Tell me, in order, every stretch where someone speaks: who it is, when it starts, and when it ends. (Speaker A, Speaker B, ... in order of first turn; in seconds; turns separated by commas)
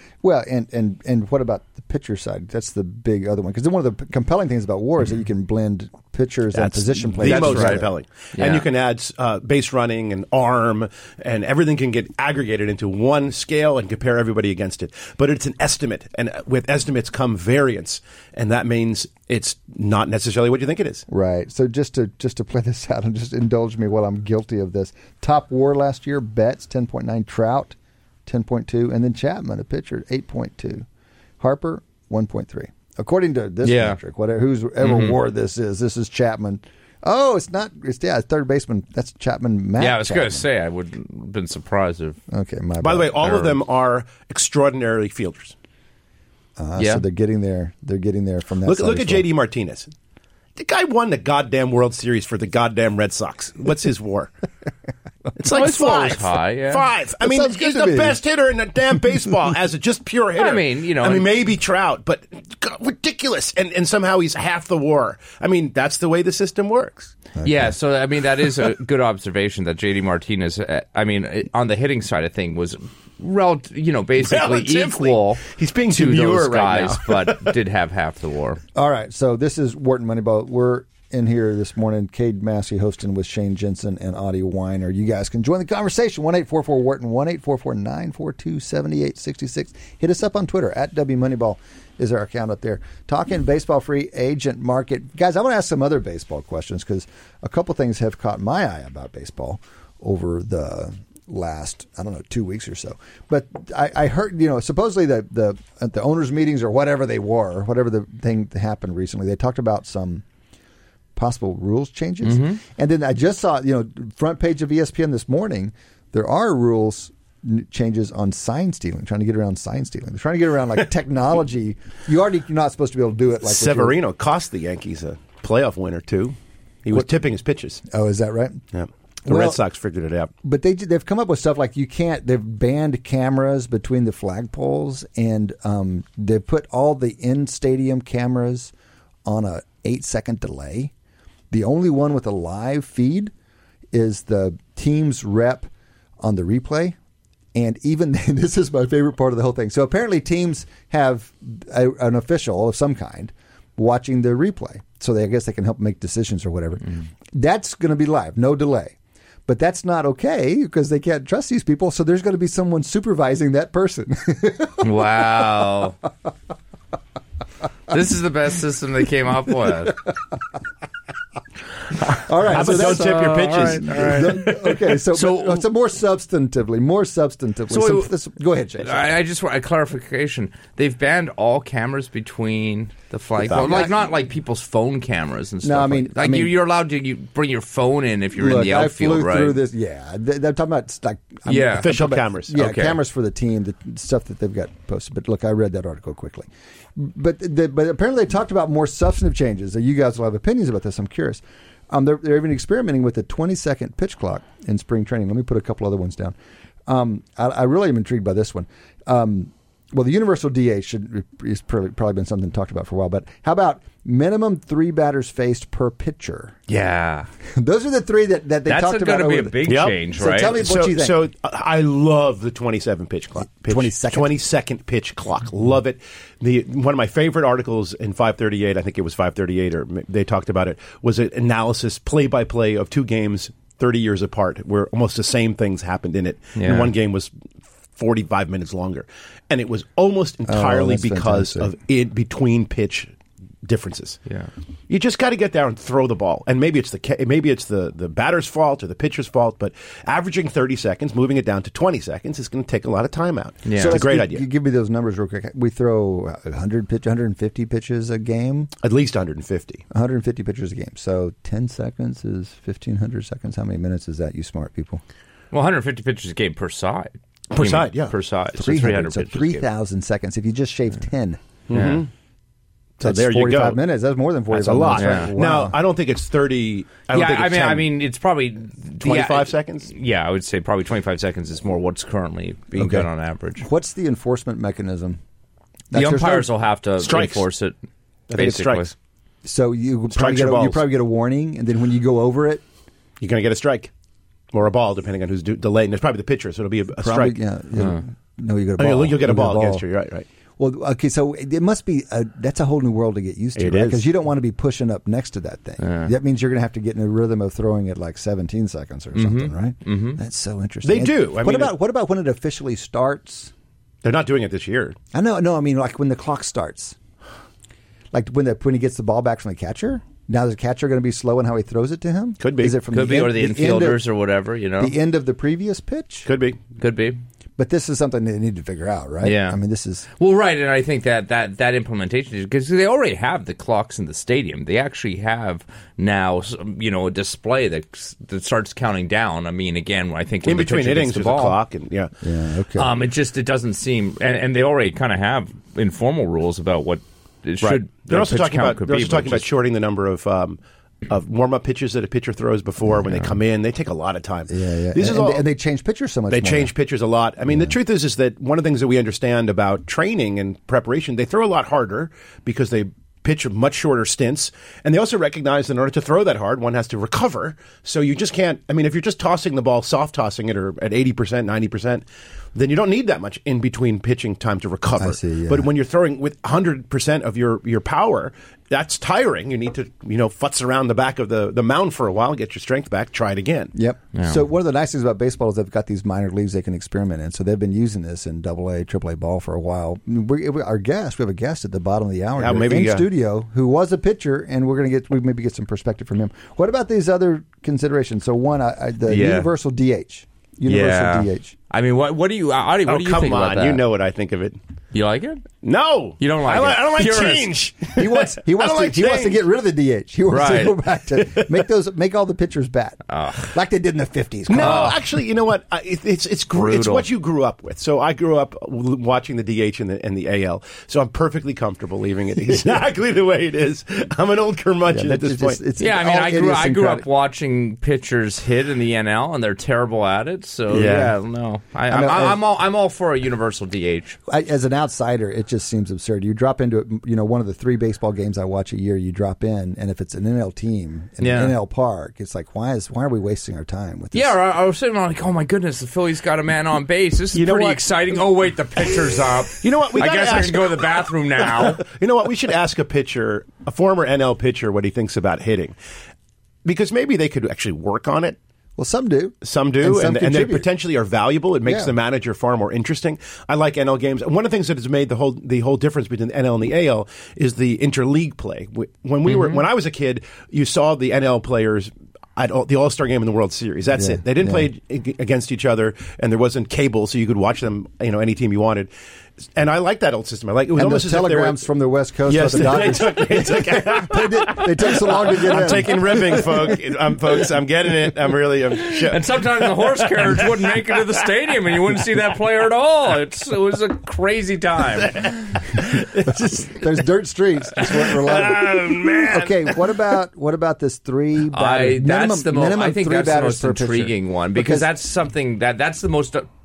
Speaker A: 0.2-7.9, Speaker B: 6.5-21.0, Speaker C: 7.2-8.7, Speaker A: 21.1-30.9, Speaker A: 31.4-40.5, Speaker C: 33.6-34.0, Speaker C: 34.8-35.1, Speaker C: 39.8-42.2, Speaker A: 42.3-43.6, Speaker B: 42.8-45.6, Speaker A: 46.6-49.3, Speaker C: 46.8-47.0, Speaker B: 48.6-49.9, Speaker B: 50.6-54.3, Speaker B: 55.4-67.2, Speaker C: 55.4-56.9, Speaker A: 57.2-58.2, Speaker C: 60.4-61.3, Speaker A: 67.4-67.7, Speaker C: 67.4-78.6, Speaker B: 74.2-77.5, Speaker A: 78.8-110.2, Speaker A: 111.2-124.0, Speaker C: 112.2-112.6, Speaker B: 123.4-127.8, Speaker A: 127.9-128.6, Speaker B: 128.7-130.3, Speaker A: 129.3-129.6, Speaker A: 130.4-138.7, Speaker A: 139.2-140.9, Speaker A: 141.5-143.3, Speaker A: 143.9-147.0, Speaker A: 147.5-158.9, Speaker A: 159.5-164.9, Speaker C: 164.8-166.0, Speaker C: 167.9-170.1, Speaker A: 172.2-179.1, Speaker B: 172.4-174.5, Speaker C: 172.5-175.7, Speaker C: 177.7-178.1, Speaker C: 178.8-189.6, Speaker B: 183.4-183.9, Speaker A: 183.5-183.9, Speaker A: 185.6-186.5, Speaker A: 188.4-216.6, Speaker C: 191.5-192.0, Speaker B: 191.8-192.7, Speaker C: 192.6-193.0, Speaker C: 216.7-217.3, Speaker A: 217.5-221.2, Speaker C: 218.7-220.6, Speaker B: 219.7-237.3, Speaker A: 223.4-224.4, Speaker C: 236.6-236.9, Speaker B: 237.9-244.2, Speaker A: 240.5-241.7, Speaker B: 244.9-254.4, Speaker C: 253.7-254.0, Speaker A: 253.8-258.7, Speaker B: 258.8-259.8, Speaker A: 259.9-265.0, Speaker C: 265.5-269.6, Speaker B: 267.5-268.1, Speaker A: 268.6-271.6, Speaker B: 271.7-272.1, Speaker C: 271.7-272.0, Speaker B: 273.0-273.8, Speaker A: 273.0-275.8, Speaker B: 274.5-277.9, Speaker C: 275.0-275.3, Speaker C: 277.1-283.6, Speaker B: 279.0-279.9, Speaker A: 282.8-285.2, Speaker A: 285.9-286.5, Speaker C: 285.9-287.8, Speaker B: 287.0-287.4, Speaker B: 288.3-288.9, Speaker C: 288.4-288.9, Speaker A: 289.4-292.6, Speaker B: 290.1-290.8, Speaker B: 293.2-293.9, Speaker B: 294.5-297.4, Speaker A: 297.0-299.8, Speaker B: 298.8-300.3, Speaker A: 300.6-313.5, Speaker B: 303.6-304.1, Speaker C: 305.8-306.1, Speaker C: 309.1-310.2, Speaker B: 310.8-311.8, Speaker B: 314.0-315.0, Speaker A: 315.1-317.0, Speaker A: 318.1-324.0, Speaker B: 322.4-322.8, Speaker C: 322.9-324.9, Speaker A: 324.8-326.3, Speaker B: 326.3-326.6, Speaker C: 326.8-327.2, Speaker A: 327.6-330.1, Speaker C: 329.2-329.6, Speaker C: 330.2-341.6, Speaker B: 340.4-342.1, Speaker A: 342.2-342.9, Speaker C: 342.8-349.5, Speaker B: 347.6-355.5, Speaker A: 354.5-356.7, Speaker B: 356.3-372.0, Speaker A: 357.5-357.8, Speaker B: 372.6-383.8, Speaker A: 375.0-375.7, Speaker A: 383.7-401.6, Speaker C: 384.1-384.4, Speaker B: 392.4-393.1, Speaker C: 399.1-399.5, Speaker C: 400.7-403.8, Speaker B: 402.9-404.6, Speaker C: 404.9-405.5, Speaker B: 405.6-409.4, Speaker C: 406.2-407.5, Speaker A: 408.0-414.9, Speaker C: 410.3-410.8, Speaker C: 413.1-413.5, Speaker B: 414.5-425.6, Speaker C: 414.6-415.0, Speaker C: 416.5-417.1, Speaker A: 424.9-427.1, Speaker C: 425.8-434.2, Speaker A: 430.7-431.1, Speaker A: 431.9-432.4, Speaker A: 434.3-444.4, Speaker C: 441.2-441.6, Speaker C: 444.1-451.8, Speaker B: 447.3-448.0, Speaker B: 449.6-455.8, Speaker B: 456.6-458.4, Speaker A: 458.8-460.7, Speaker B: 459.4-478.9, Speaker A: 461.6-461.9, Speaker C: 469.3-469.6, Speaker A: 474.0-474.7, Speaker B: 479.4-481.7, Speaker A: 480.7-486.8, Speaker B: 482.3-489.3, Speaker C: 485.5-485.8, Speaker C: 489.1-495.3, Speaker B: 490.2-490.7, Speaker B: 495.1-496.9, Speaker A: 496.3-504.9, Speaker B: 497.8-499.8, Speaker C: 498.8-499.1, Speaker C: 501.5-506.5